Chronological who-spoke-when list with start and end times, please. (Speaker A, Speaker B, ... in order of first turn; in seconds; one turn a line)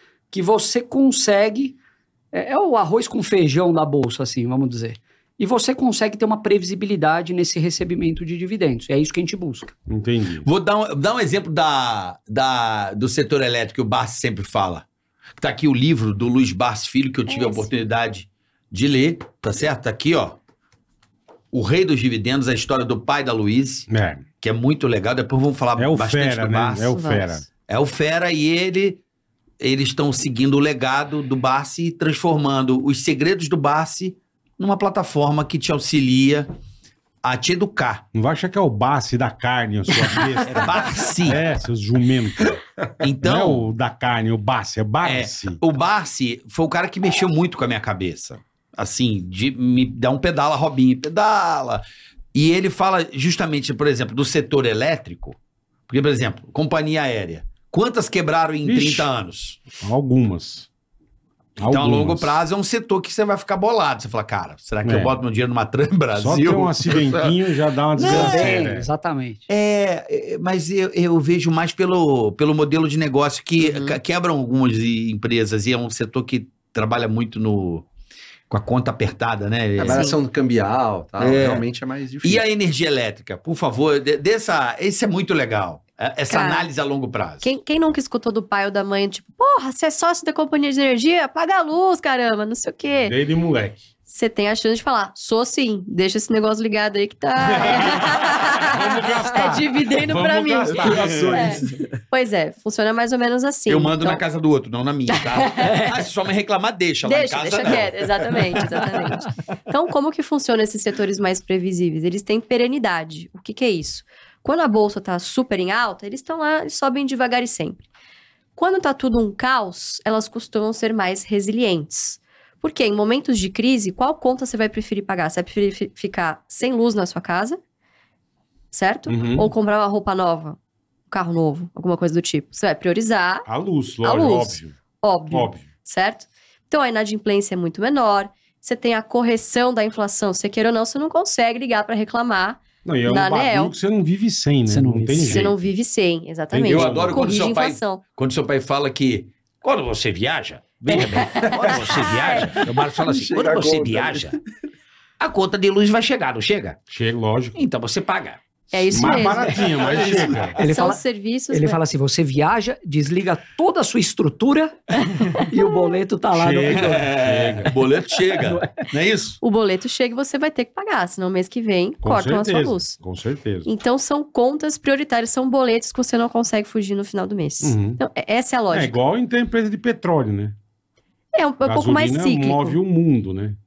Speaker A: 0.3-1.8
Speaker A: 2.3-9.7
Speaker B: 9.9-10.4
Speaker C: 10.4-14.8
Speaker C: 15.4-20.4
Speaker D: 17.3-17.7
Speaker C: 21.5-23.9
Speaker B: 23.9-24.2
Speaker C: 24.4-27.0
Speaker B: 25.8-27.4
Speaker D: 26.9-27.4
Speaker C: 27.6-29.0
Speaker C: 29.6-36.5
Speaker C: 37.2-38.0
Speaker B: 38.1-42.6
Speaker C: 40.4-41.4
Speaker C: 43.0-43.6
Speaker B: 43.2-45.6
Speaker C: 45.0-51.8
Speaker C: 52.3-55.4
Speaker C: 55.9-59.7
Speaker B: 58.6-59.1
Speaker B: 59.8-60.7
Speaker B: 61.6-62.4
Speaker C: 61.6-67.4
Speaker B: 64.8-65.1
Speaker B: 66.2-68.9
Speaker C: 67.9-68.7
Speaker A: 68.0-69.5
Speaker C: 69.5-77.8
Speaker D: 73.6-74.0
Speaker C: 78.5-80.1
Speaker E: 79.8-82.4
Speaker D: 79.8-80.2
Speaker C: 81.2-81.7
Speaker C: 82.2-87.5
Speaker D: 86.3-86.7
Speaker D: 87.4-93.2
Speaker B: 93.0-93.8
Speaker D: 94.1-104.2
Speaker B: 97.5-101.6
Speaker E: 100.7-101.9
Speaker C: 103.7-108.8
Speaker D: 105.1-105.9
Speaker D: 107.0-117.8
Speaker D: 118.5-127.6
Speaker D: 128.7-130.6
Speaker B: 129.1-129.5
Speaker D: 131.1-133.5
Speaker B: 133.5-134.7
Speaker D: 134.0-143.7
Speaker B: 135.3-135.6
Speaker B: 142.8-145.5
Speaker A: 144.7-145.5
Speaker D: 145.2-148.0
Speaker B: 146.5-147.3
Speaker C: 146.6-154.4
Speaker D: 150.9-152.5
Speaker E: 151.4-152.1
Speaker E: 152.6-154.4
Speaker C: 155.2-156.8
Speaker B: 156.9-157.6
Speaker C: 157.6-158.4
Speaker D: 158.7-159.7
Speaker B: 158.9-160.6
Speaker C: 159.8-160.5
Speaker A: 160.5-164.8
Speaker D: 160.6-161.8
Speaker D: 165.2-165.4
Speaker A: 165.3-167.2
Speaker B: 166.3-167.7
Speaker C: 166.8-169.4
Speaker A: 168.3-168.8
Speaker D: 169.4-173.0
Speaker B: 172.0-173.7
Speaker D: 173.6-179.0
Speaker B: 177.6-178.0
Speaker B: 178.7-180.6
Speaker D: 181.3-182.8
Speaker B: 181.6-183.6